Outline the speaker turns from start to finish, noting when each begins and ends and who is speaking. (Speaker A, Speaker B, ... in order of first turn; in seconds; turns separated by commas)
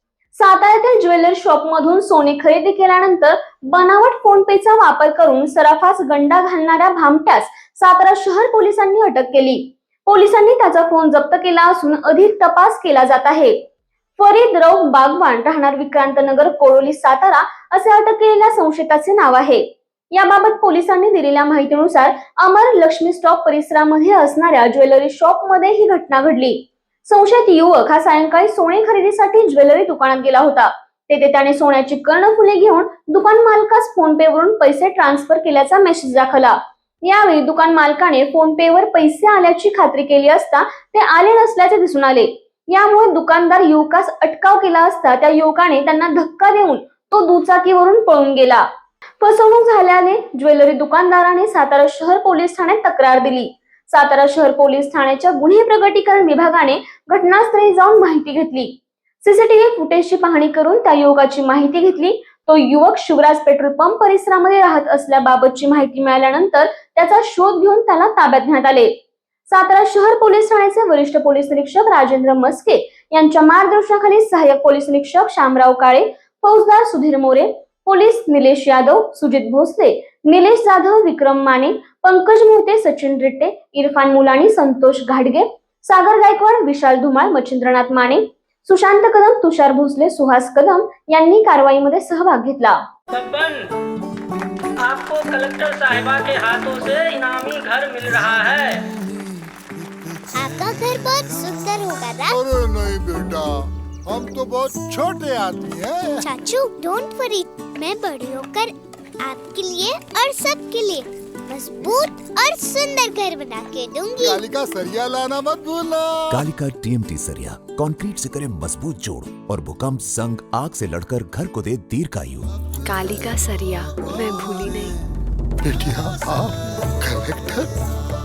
Speaker A: 0.3-13.6, Speaker A: 14.2-48.7, Speaker A: 49.2-68.9, Speaker A: 69.5-92.8, Speaker B: 93.1-93.7, Speaker B: 94.8-98.8, Speaker C: 100.3-102.4, Speaker D: 102.3-106.3, Speaker C: 106.2-114.4, Speaker D: 114.2-116.4, Speaker E: 116.3-122.5, Speaker F: 122.8-125.0, Speaker D: 125.6-127.7